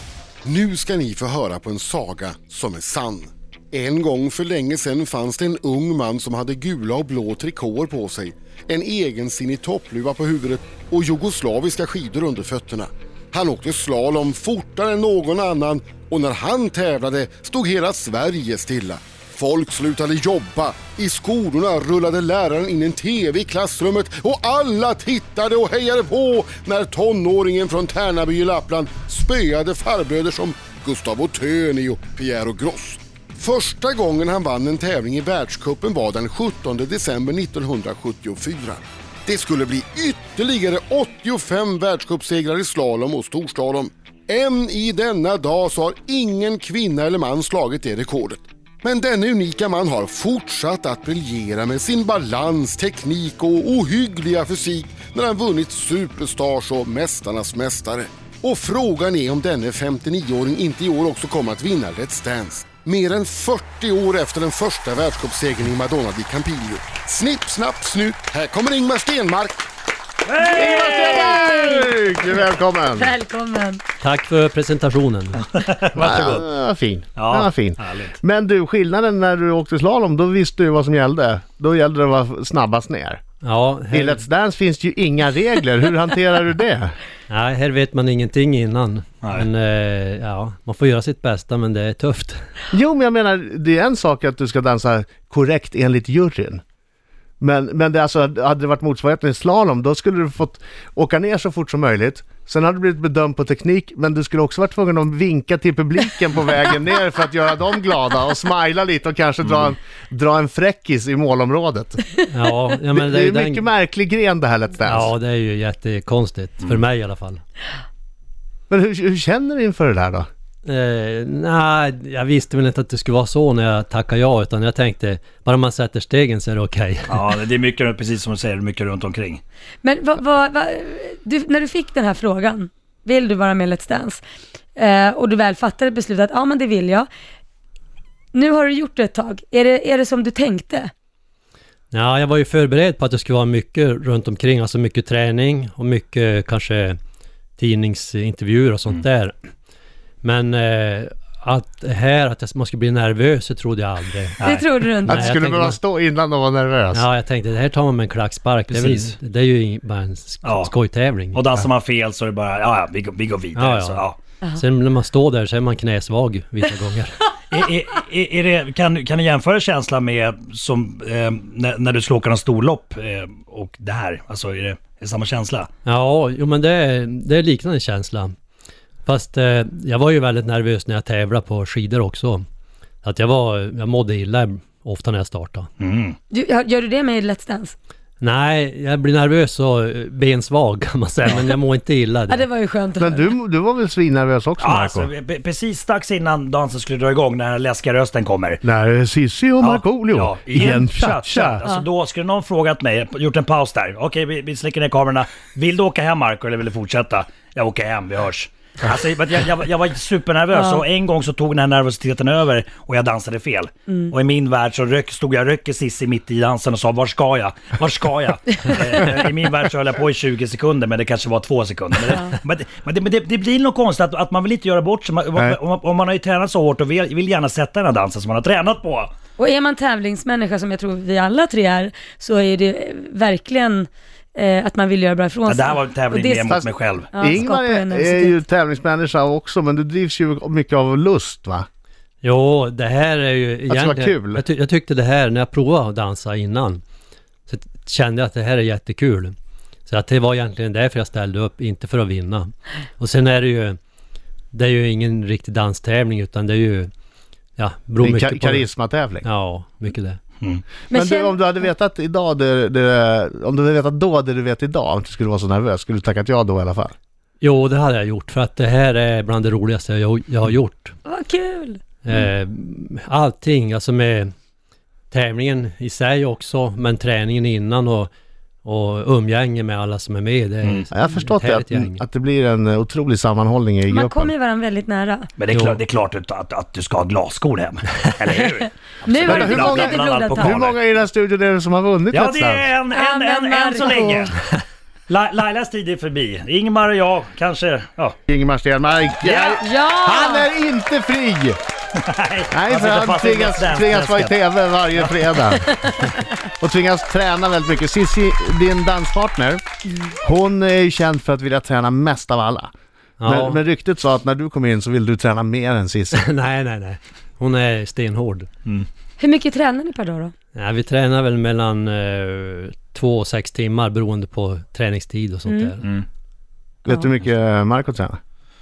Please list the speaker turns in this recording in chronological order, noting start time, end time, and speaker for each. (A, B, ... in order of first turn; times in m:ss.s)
0:00.4-1:09.7 A
1:10.2-1:11.1 B
1:10.4-1:13.2 C
1:10.8-1:12.0 D
1:13.0-1:13.8 D
1:14.0-1:15.5 E
1:15.4-1:16.4 B
1:15.9-1:23.2 C
1:17.2-1:18.2 B
1:23.4-1:24.3 E
1:23.9-1:27.0 C
1:27.3-1:32.5 E
1:29.2-1:29.5 B
1:32.7-1:36.6 C
1:37.4-1:52.1 C
1:52.3-1:53.7 E
1:52.9-1:55.1 C
1:54.8-1:57.4 E
1:58.7-2:00.3 C
2:00.7-2:07.3 E
2:07.1-2:09.4 B
2:09.8-2:14.2 D
2:14.8-2:17.1 D
2:18.3-2:20.9 D
2:21.9-2:27.0 E
2:27.6-2:29.4 E
2:30.2-2:35.8 E
2:34.4-2:34.7 B
2:34.4-2:35.4 D
2:35.1-2:37.1 C
2:36.9-2:41.5 E
2:38.7-2:39.1 B
2:40.4-2:40.7 B
2:41.3-2:44.2 B
2:43.6-2:47.3 E
2:47.5-2:55.7 B
2:55.8-2:58.3 E
2:59.1-3:02.4 E
3:03.0-3:05.7 E
3:05.8-3:06.2 B
3:06.3-3:07.8 D
3:08.2-3:12.5 E
3:12.3-3:13.3 D
3:13.0-3:15.1 C
3:14.6-3:18.6 B
3:18.6-3:21.6 C
3:19.6-3:49.1 B
3:33.9-3:34.1 D
3:49.4-3:56.6 D
3:55.5-3:57.1 B
3:57.1-3:58.4 D
3:57.2-4:01.7 C
4:02.2-4:06.8 E
4:03.7-4:04.4 C
4:07.5-4:09.3 E
4:09.9-4:13.8 E
4:14.5-4:16.9 E
4:17.6-4:18.7 E
4:18.0-4:19.3 C
4:19.2-4:20.2 E
4:20.9-4:21.4 D
4:20.9-4:26.9 C
4:27.4-4:31.0 E
4:31.1-4:31.8 D
4:32.0-4:34.3 E
4:35.1-4:38.1 E
4:38.6-4:42.0 E
4:40.9-4:44.3 C
4:43.9-4:45.3 D
4:45.4-4:50.8 B
4:45.5-4:45.8 E
4:49.0-4:50.6 D
4:49.3-4:52.7 C
4:52.1-4:54.3 B
4:52.8-4:54.3 D
4:55.1-4:58.2 B
4:58.3-5:01.6 C
4:59.2-4:59.5 B
4:59.5-5:00.5 D
5:02.0-5:04.4 B
5:02.5-5:05.6 C
5:05.5-5:06.3 D
5:06.6-5:09.6 C
5:10.2-5:12.7 C
5:13.2-5:13.6 E
5:13.2-5:16.3 C
5:16.1-5:18.5 E
5:19.2-5:20.3 D
5:20.5-5:25.8 E
5:25.5-5:25.7 D
5:26.9-5:28.2 C